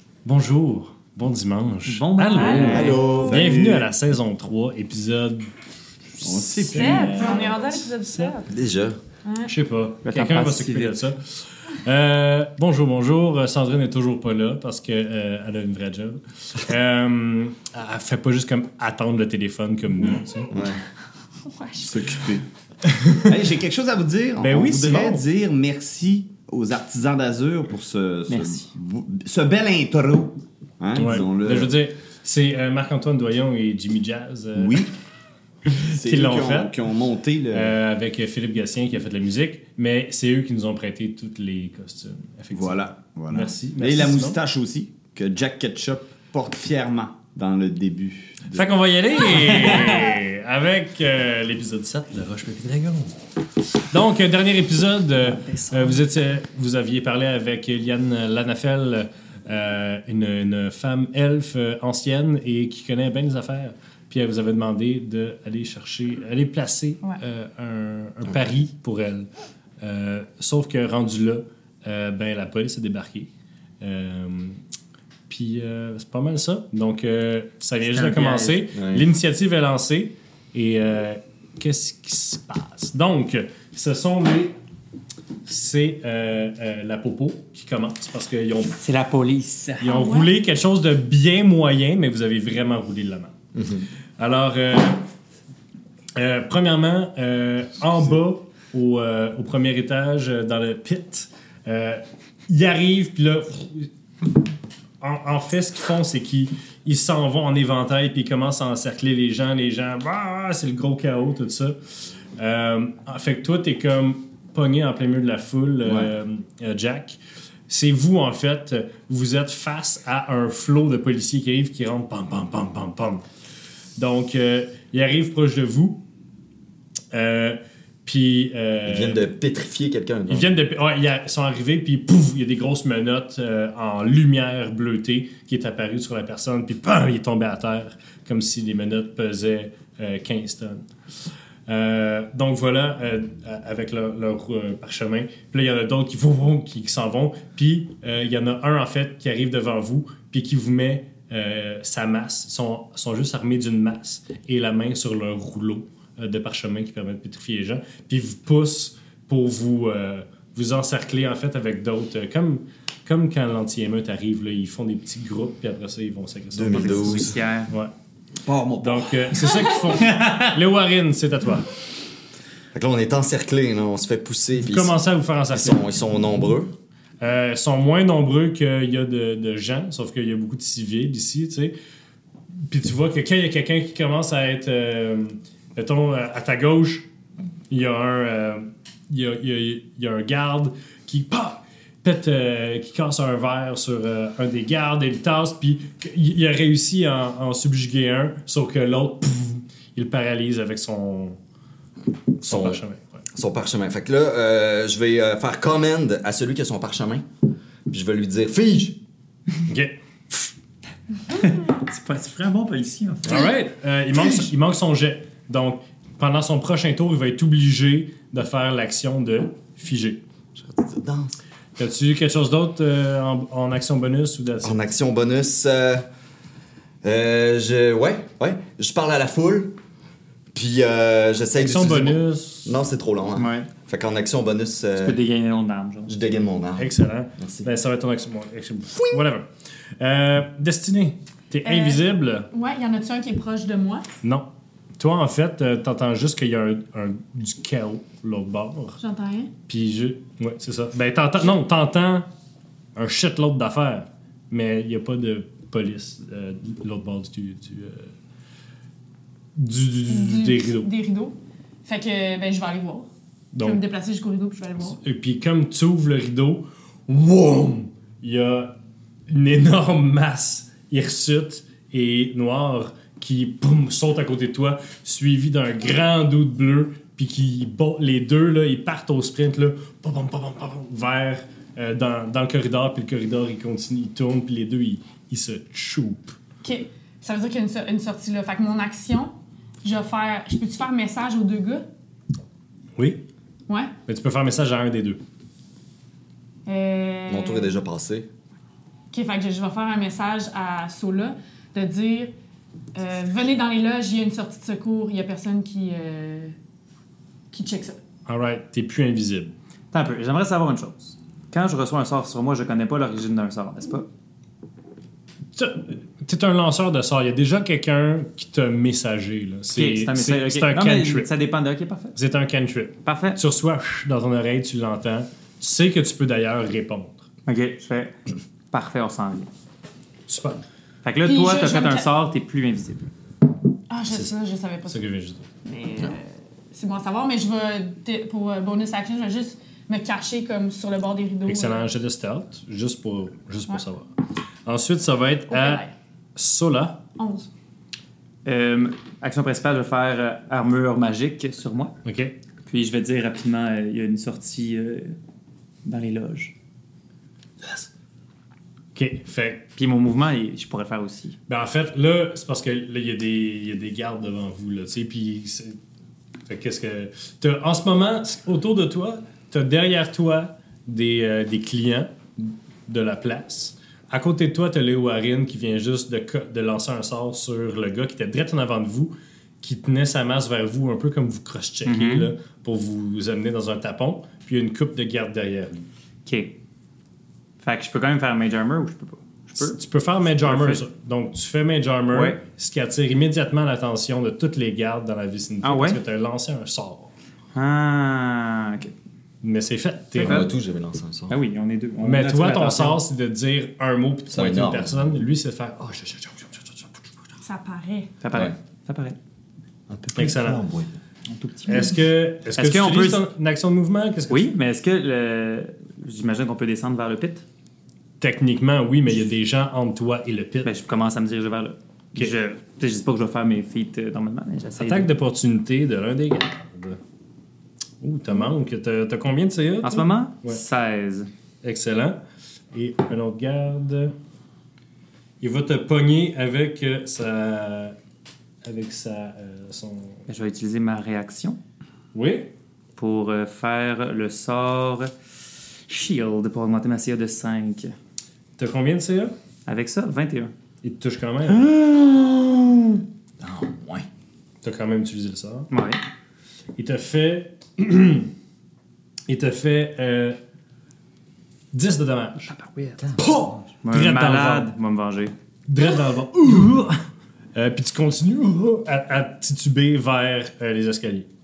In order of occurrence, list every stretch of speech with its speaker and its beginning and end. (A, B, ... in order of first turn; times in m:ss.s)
0:00.2-0:05.5 A
0:01.9-0:03.0 B
0:02.4-0:03.3 C
0:02.4-0:03.9 D
0:06.1-0:08.3 A
0:06.2-0:07.3 D
0:06.7-0:08.5 C
0:08.5-0:09.0 E
0:09.3-0:09.5 C
0:09.4-0:20.5 A
0:10.1-0:11.0 B
0:21.4-0:22.0 C
0:21.8-0:22.4 D
0:22.8-0:23.3 A
0:23.3-0:31.7 D
0:24.4-0:25.3 A
0:28.3-0:28.7 B
0:31.0-0:34.8 A
0:34.6-0:34.9 D
0:35.7-0:36.8 A
0:35.9-0:37.8 D
0:37.5-0:44.4 A
0:42.5-0:48.7 D
0:48.5-0:53.2 A
0:53.8-1:09.3 A
0:55.2-0:56.0 B
1:09.8-1:13.3 A
1:13.8-1:14.6 A
1:15.3-1:24.6 A
1:17.9-1:18.7 B
1:18.8-1:19.1 E
1:25.4-1:28.8 A
1:28.8-1:29.9 B
1:29.8-1:33.3 A
1:29.8-1:30.3 C
1:33.5-1:33.9 E
1:34.2-1:35.0 A
1:36.2-1:43.9 A
1:45.0-1:51.8 A
1:52.4-2:03.3 A
1:55.8-1:56.1 D
2:04.0-2:06.0 A
2:07.1-2:09.2 A
2:08.8-2:10.5 E
2:10.3-2:20.8 A
2:21.7-2:47.9 A
2:46.5-2:47.4 E
2:46.7-2:47.7 B
2:48.4-2:49.5 D
2:48.8-2:51.7 A
2:50.1-2:50.4 B
2:52.7-2:55.0 E
2:54.6-2:55.8 A
2:55.5-2:56.7 E
2:57.2-3:01.7 A
3:02.7-3:07.1 A
3:07.7-3:21.4 A
3:22.4-3:22.8 E
3:22.4-3:23.2 A
3:23.4-3:27.3 E
3:27.9-3:29.0 E
3:29.7-3:30.5 A
3:31.3-3:33.5 B
3:33.3-3:40.2 A
3:40.6-3:41.3 E
3:41.8-3:44.8 A
3:44.6-3:46.0 E
3:47.0-3:49.8 E
3:50.5-3:55.2 E
3:51.6-3:52.8 A
3:53.4-3:53.7 B
3:55.0-3:56.2 B
3:56.1-3:57.7 E
3:56.8-3:59.5 A
4:00.0-4:02.5 A
4:01.6-4:04.1 C
4:05.0-4:09.0 A
4:09.0-4:09.5 C
4:09.7-4:12.3 A
4:13.0-4:18.1 A
4:19.6-4:20.9 A
4:20.1-4:23.1 C
4:23.5-4:23.8 A
4:23.6-4:25.0 C
4:25.0-4:28.8 A
4:29.3-4:46.4 A
4:46.6-4:51.8 C
4:54.1-4:55.2 A
4:56.7-4:57.8 C
4:57.3-4:58.3 E
4:59.1-5:02.3 C
5:03.0-5:06.6 C
5:07.5-5:08.0 C
5:08.3-5:09.5 A
5:09.9-5:14.1 B
5:15.6-5:21.3 A
5:19.7-5:22.2 B
5:22.2-5:27.2 A
5:23.0-5:23.4 B
5:27.5-5:28.2 B
5:28.7-5:29.5 B
5:30.3-5:30.6 A
5:31.0-5:33.1 B
5:31.2-5:32.1 C
5:33.9-5:35.0 C
5:34.1-5:34.4 A
5:34.9-5:35.5 A
5:35.6-5:41.8 C
5:41.5-5:44.1 A
5:44.7-5:45.8 A
5:45.5-5:45.9 C
5:46.4-5:47.0 A
5:47.2-5:47.5 C
5:48.4-5:52.0 B
5:52.0-5:52.3 A
5:52.7-5:55.2 B
5:55.8-5:56.5 B
5:59.0-5:59.7 A
5:59.8-6:01.4 B
6:01.5-6:05.8 A
6:06.5-6:25.8 A
6:21.8-6:22.3 B
6:26.3-6:26.6 B
6:27.6-6:29.8 B
6:29.6-6:37.1 A
6:30.4-6:30.8 B
6:32.1-6:32.4 B
6:35.6-6:36.0 B
6:37.5-6:38.9 B
6:39.4-6:40.5 A
6:40.2-6:41.4 E
6:40.2-6:40.5 B
6:41.3-6:43.0 B
6:42.0-6:47.1 A
6:44.3-6:45.1 E
6:47.4-6:48.1 C
6:48.2-6:49.2 B
6:49.9-6:50.9 E
6:50.2-6:50.6 A
6:51.3-6:52.0 B
6:51.7-6:54.5 A
6:52.5-6:53.2 B
6:54.3-6:57.4 B
6:58.2-7:00.7 A
7:00.6-7:05.1 B
7:04.8-7:07.0 A
7:08.0-7:10.6 A
7:09.8-7:11.3 B
7:11.6-7:12.2 A
7:12.7-7:14.2 A
7:15.4-7:18.0 A
7:18.6-7:20.2 A
7:20.3-7:21.6 B
7:22.1-7:22.5 A
7:23.0-7:25.1 B
7:25.9-7:27.9 B
7:28.6-7:29.3 A
7:29.7-7:30.5 B
7:30.8-7:31.7 A
7:31.6-7:33.0 B
7:33.4-7:34.1 E
7:34.6-7:35.7 A
7:35.7-7:36.0 B
7:36.8-7:38.3 A
7:39.3-7:40.4 A
7:41.7-7:42.5 A
7:42.5-7:43.0 B
7:43.0-7:43.7 E
7:43.2-7:44.7 A
7:43.8-7:45.3 B
7:45.7-7:47.0 A
7:47.6-7:51.3 A